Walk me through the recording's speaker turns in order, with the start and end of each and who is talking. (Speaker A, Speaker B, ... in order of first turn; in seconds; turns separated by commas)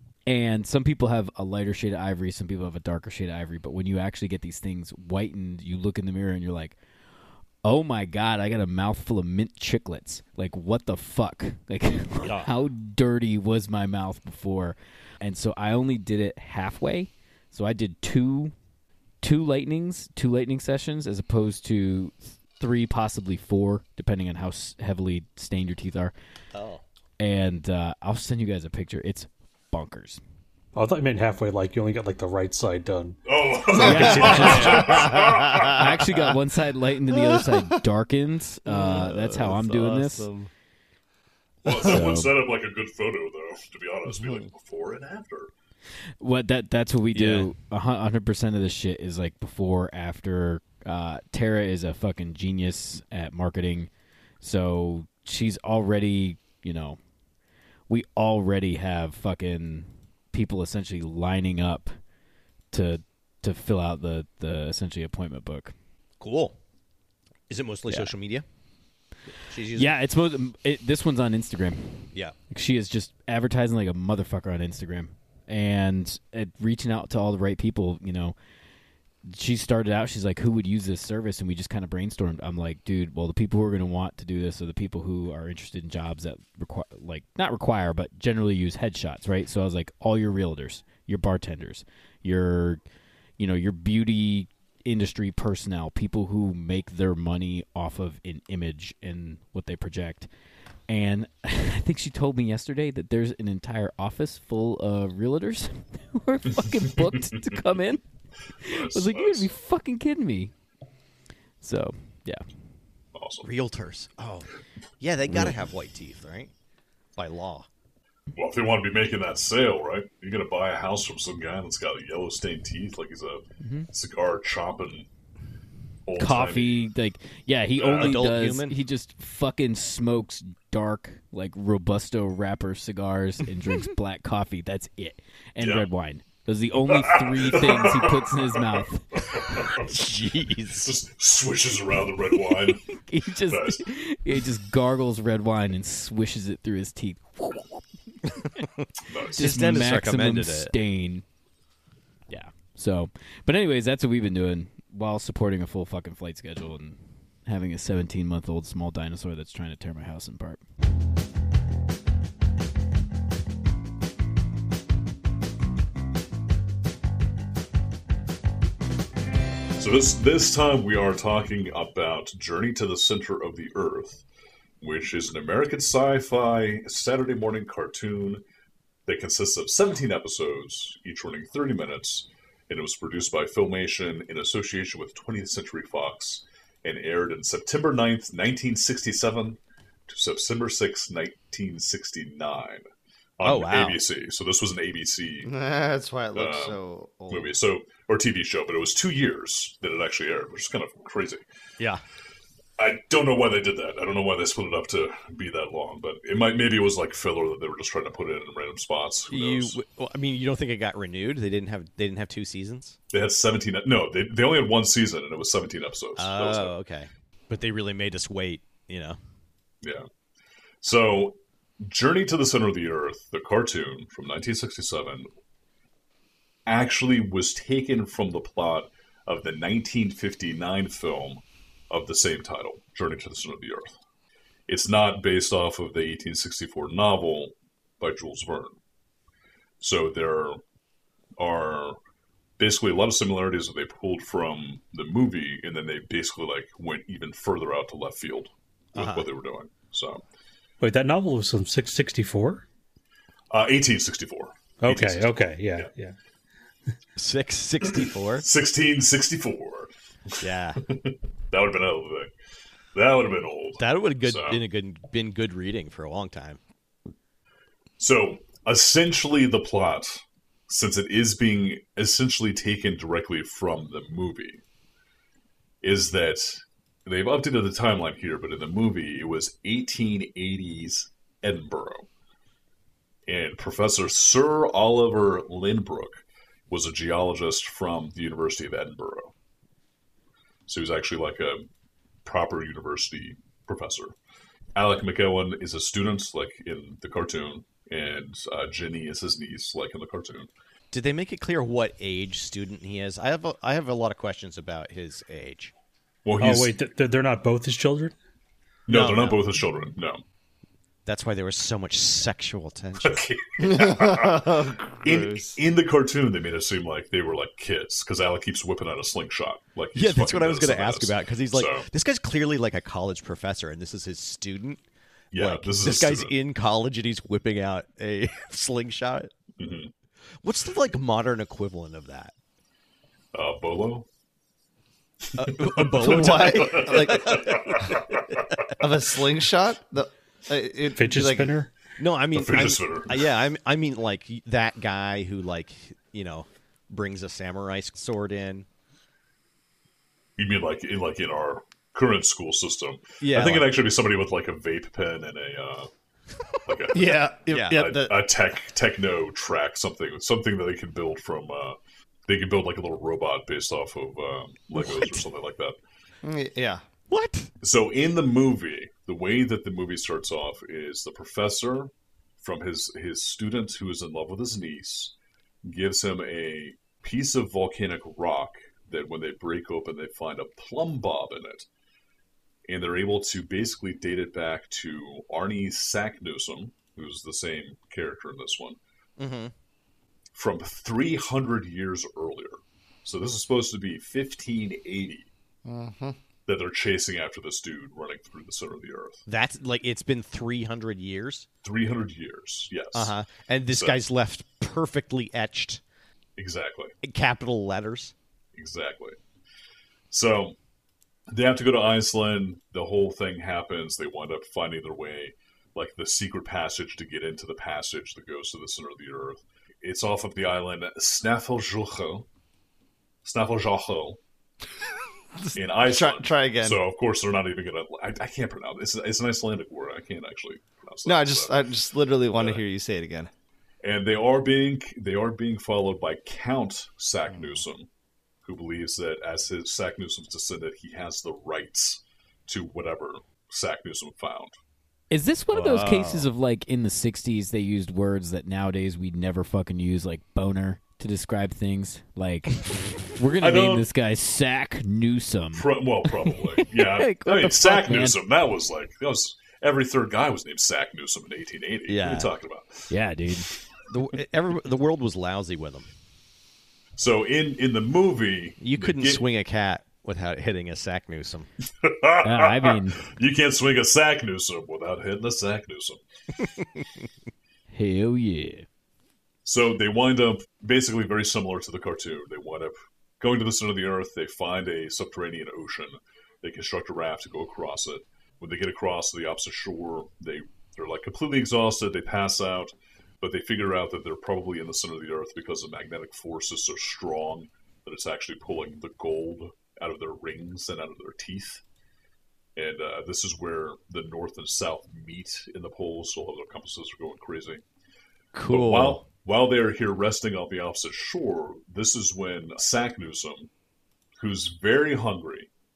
Speaker A: 0.3-6.8, Speaker A: 7.6-18.5, Speaker B: 12.2-12.5, Speaker A: 19.2-26.1, Speaker B: 26.5-26.8, Speaker A: 27.2-30.2, Speaker C: 30.7-33.2, Speaker D: 33.2-35.8, Speaker A: 33.8-40.3, Speaker C: 33.8-34.7, Speaker E: 33.8-35.8, Speaker E: 37.2-37.6, Speaker E: 38.6-40.5, Speaker D: 41.6-45.5, Speaker E: 41.7-42.0, Speaker A: 41.8-42.3, Speaker E: 44.1-44.4, Speaker A: 46.2-53.9, Speaker B: 47.1-47.5, Speaker A: 54.4-57.0, Speaker A: 57.9-61.9, Speaker A: 62.7-65.7, Speaker B: 66.2-66.5, Speaker B: 67.5-68.4, Speaker B: 69.4-69.9, Speaker A: 69.7-78.3, Speaker A: 79.3-92.8, Speaker A: 93.4-100.3, Speaker A: 100.9-108.0, Speaker D: 108.6-109.5, Speaker A: 108.6-110.5, Speaker A: 111.6-112.4, Speaker D: 113.1-113.5, Speaker B: 113.4-116.5, Speaker A: 115.3-115.5, Speaker B: 117.2-117.7, Speaker D: 118.3-125.1, Speaker A: 123.6-123.9, Speaker D: 126.0-126.9, Speaker A: 126.2-139.4, Speaker D: 127.8-128.2, Speaker B: 128.0-128.8, Speaker D: 135.6-135.8, Speaker D: 136.9-138.6, Speaker D: 139.3-139.8, Speaker B: 139.8-140.9, Speaker D: 140.8-142.8, Speaker A: 142.5-147.8, Speaker D: 143.5-143.8, Speaker D: 149.0-149.6, Speaker B: 149.3-150.7, Speaker A: 149.3-151.2, Speaker A: 152.3-160.6, Speaker D: 169.8-174.2, Speaker D: 174.8-178.4, Speaker D: 179.1-192.9, Speaker D: 193.4-195.5, Speaker B: 193.4-194.0, Speaker E: 195.4-197.5, Speaker D: 196.3-196.8, Speaker D: 197.3-201.4, Speaker D: 202.8-209.8, Speaker B: 209.3-213.0, Speaker D: 213.1-216.7, Speaker B: 216.2-219.2, Speaker D: 219.8-220.1, Speaker D: 220.8-225.3, Speaker D: 226.7-234.0, Speaker D: 234.7-238.8, Speaker D: 239.8-240.6, Speaker D: 241.4-242.0, Speaker D: 242.6-250.2, Speaker B: 248.9-249.2, Speaker C: 250.8-252.6, Speaker D: 253.5-255.9, Speaker C: 254.8-256.1, Speaker B: 257.2-258.4, Speaker D: 258.4-262.3, Speaker B: 260.4-260.8, Speaker D: 262.9-264.6, Speaker B: 263.8-266.6, Speaker D: 268.0-274.6, Speaker D: 275.8-282.1, Speaker D: 283.3-289.3, Speaker D: 290.7-291.7, Speaker D: 292.2-294.1, Speaker D: 294.8-300.5, Speaker B: 300.9-305.7, Speaker D: 306.2-306.7, Speaker C: 306.4-308.1, Speaker D: 308.9-310.2, Speaker B: 308.9-309.5, Speaker B: 311.1-313.2, Speaker D: 313.0-314.5, Speaker E: 313.6-315.6, Speaker D: 315.0-321.9, Speaker B: 319.9-324.8, Speaker D: 325.3-326.4, Speaker B: 325.3-329.3, Speaker D: 329.6-329.9, Speaker B: 330.4-332.3, Speaker D: 333.3-334.1, Speaker D: 335.3-338.2, Speaker B: 335.4-337.9, Speaker E: 336.0-338.1, Speaker E: 338.8-341.6, Speaker C: 340.9-341.7, Speaker B: 342.0-348.6, Speaker D: 342.3-343.2, Speaker D: 350.4-355.9, Speaker B: 353.2-353.7, Speaker D: 356.6-361.8, Speaker E: 356.9-358.2, Speaker B: 357.5-357.8, Speaker D: 362.3-365.8, Speaker B: 364.7-365.2, Speaker E: 366.2-366.8, Speaker B: 367.1-367.5, Speaker D: 367.6-371.9, Speaker D: 372.4-381.7, Speaker D: 382.7-388.8, Speaker B: 389.2-389.5, Speaker D: 390.3-395.3, Speaker E: 395.6-396.2, Speaker D: 396.5-399.2, Speaker B: 399.3-401.5, Speaker D: 401.6-403.1, Speaker B: 402.9-405.8, Speaker D: 403.7-404.0, Speaker D: 406.4-406.9, Speaker B: 407.0-408.1, Speaker D: 408.5-409.1, Speaker D: 410.1-410.6, Speaker D: 411.3-422.2, Speaker D: 423.2-424.2, Speaker E: 425.4-426.8, Speaker D: 425.5-431.6, Speaker E: 431.1-433.3, Speaker D: 432.3-432.6, Speaker D: 433.8-437.9, Speaker E: 437.3-437.6, Speaker D: 438.4-444.6, Speaker A: 445.1-455.7, Speaker B: 445.5-446.3, Speaker D: 453.4-453.9, Speaker D: 455.5-462.9, Speaker A: 456.7-458.2, Speaker B: 461.9-462.3, Speaker A: 462.9-463.5, Speaker B: 463.9-465.9, Speaker D: 467.0-469.2, Speaker B: 468.6-471.5, Speaker D: 471.8-476.0, Speaker A: 472.2-473.0, Speaker A: 477.7-478.6, Speaker D: 479.4-501.6, Speaker D: 502.6-507.6, Speaker B: 508.3-509.0, Speaker D: 508.5-513.5, Speaker D: 514.2-515.5